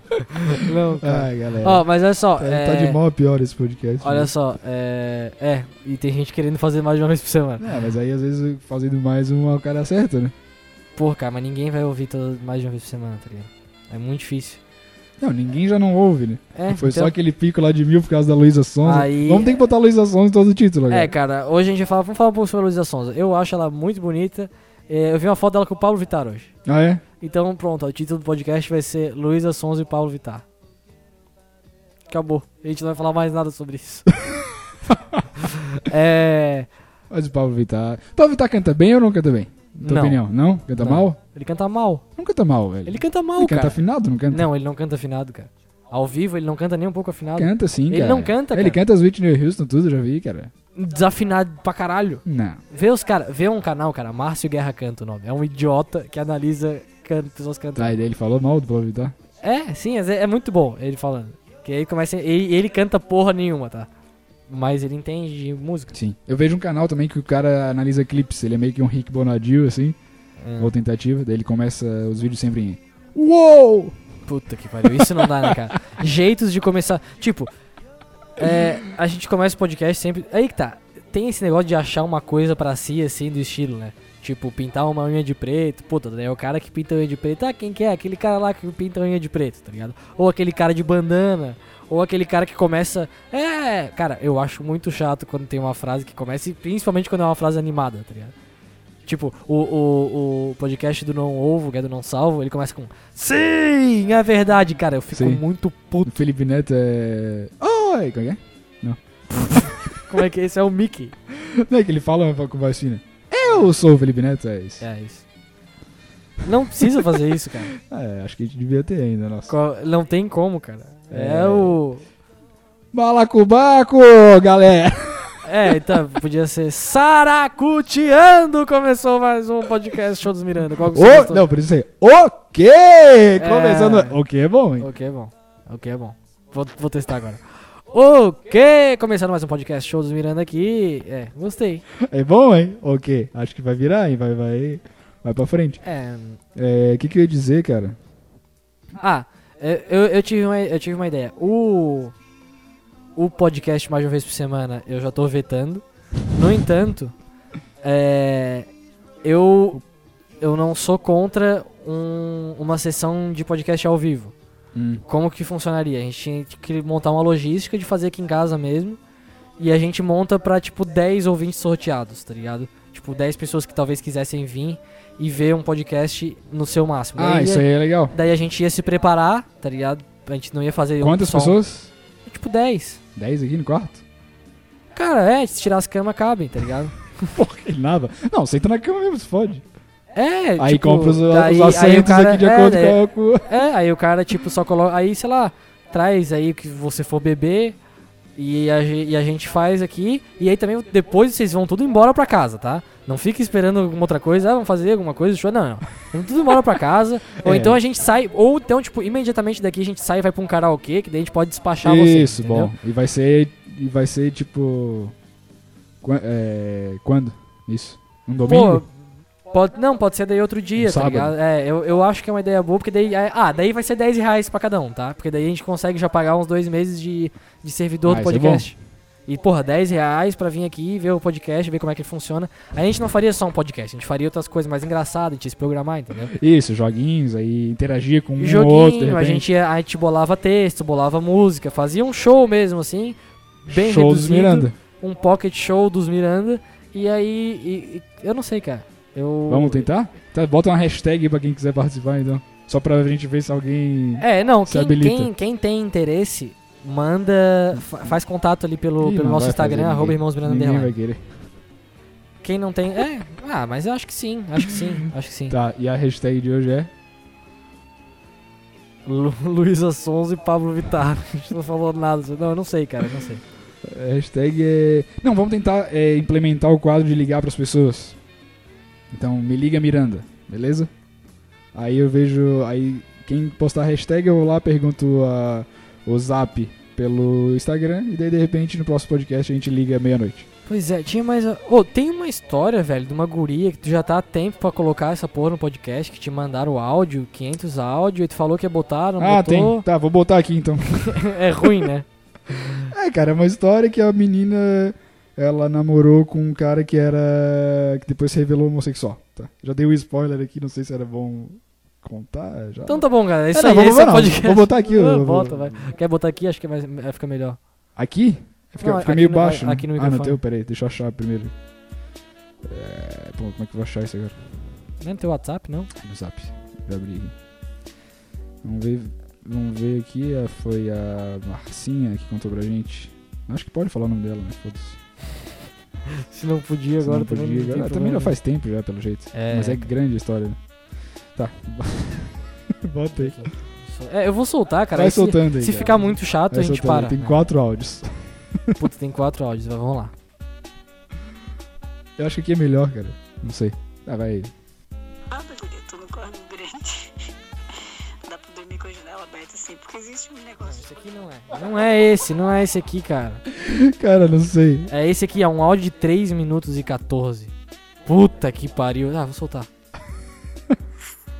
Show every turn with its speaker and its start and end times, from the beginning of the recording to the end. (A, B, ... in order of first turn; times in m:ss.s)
0:00.3-0:03.0 A
0:00.7-0:01.8 B
0:02.4-0:04.3 B
0:04.0-0:07.7 A
0:07.6-0:10.3 B
0:11.0-0:14.6 A
0:15.2-0:21.1 B
0:16.5-0:17.1 A
0:18.8-0:19.5 A
0:20.9-0:26.5 A
0:26.6-0:27.0 B
0:27.2-0:30.4 A
0:32.1-0:34.1 A
0:34.3-0:35.3 B
0:35.4-0:36.7 A
0:37.1-0:41.2 B
0:39.8-0:40.2 A
0:40.7-0:42.0 A
0:42.2-0:44.4 B
0:42.8-0:48.8 A
0:47.4-0:50.5 B
0:50.8-0:58.0 A
0:52.2-0:52.6 B
0:57.8-0:59.1 B
0:59.4-1:03.9 A
1:04.5-1:05.9 A
1:05.9-1:10.0 B
1:10.4-1:10.7 A
1:10.6-1:14.0 B
1:14.2-1:17.5 A
1:14.8-1:15.6 B
1:18.4-1:38.3 A
1:39.0-1:46.2 A
1:45.1-1:45.4 B
1:46.0-1:49.8 B
1:49.4-1:51.1 A
1:51.3-1:54.8 B
1:54.8-1:55.2 A
1:56.4-1:57.7 A
1:57.8-1:59.5 B
1:59.5-2:02.0 A
2:01.1-2:01.8 B
2:02.9-2:06.0 B
2:05.4-2:11.4 A
2:10.8-2:14.9 B
2:13.4-2:14.2 A
2:14.8-2:21.8 A
2:22.0-2:25.8 B
2:25.8-2:26.4 A
2:26.5-2:28.0 B
2:29.0-2:32.1 A
2:33.2-2:37.1 A
2:37.8-2:38.7 A
2:39.2-2:39.8 A
2:40.4-2:44.3 A
2:44.7-2:45.0 B
2:45.0-2:49.0 A
2:49.6-3:01.6 A
2:57.2-2:58.1 B
3:01.0-3:01.9 B
3:02.2-3:03.0 A
3:03.2-3:04.0 B
3:04.9-3:07.3 A
3:07.3-3:09.6 B
3:10.1-3:17.8 A
3:10.6-3:13.5 B
3:18.4-3:32.7 A
3:27.4-3:27.8 B
3:31.8-3:35.1 B
3:36.0-3:38.8 B
3:38.4-3:38.9 A
3:39.5-3:56.3 A
3:40.8-3:41.3 B
3:48.0-3:48.7 B
3:56.3-3:59.5 B
3:58.4-4:09.9 A
4:03.7-4:04.7 B
4:09.5-4:15.3 B
4:14.2-4:20.9 A
4:17.7-4:18.1 B
4:19.0-4:21.4 B
4:22.4-4:25.6 A
4:25.5-4:26.9 B
4:29.0-4:33.4 A
4:33.8-4:38.2 B
4:39.1-4:40.9 B
4:41.7-4:50.5 B
4:50.7-4:59.8 A
4:59.2-5:01.9 B
5:01.0-5:02.0 A
5:02.8-5:15.8 B
5:12.9-5:17.6 A
5:18.0-5:21.5 B
5:18.8-5:20.4 A
5:22.6-5:24.4 B
5:25.0-5:25.9 A
5:26.0-5:27.3 B
5:28.6-5:35.0 B
5:36.2-5:38.3 A
5:37.0-5:40.6 B
5:39.3-5:39.9 A
5:41.3-5:43.4 B
5:43.2-5:47.4 A
5:44.9-5:48.8 B
5:48.8-5:50.1 A
5:52.2-5:54.5 B
5:55.3-5:57.1 C
5:57.7-6:00.9 C
6:00.6-6:03.4 A
6:03.5-6:04.9 B
6:04.9-6:07.5 A
6:08.0-6:09.7 A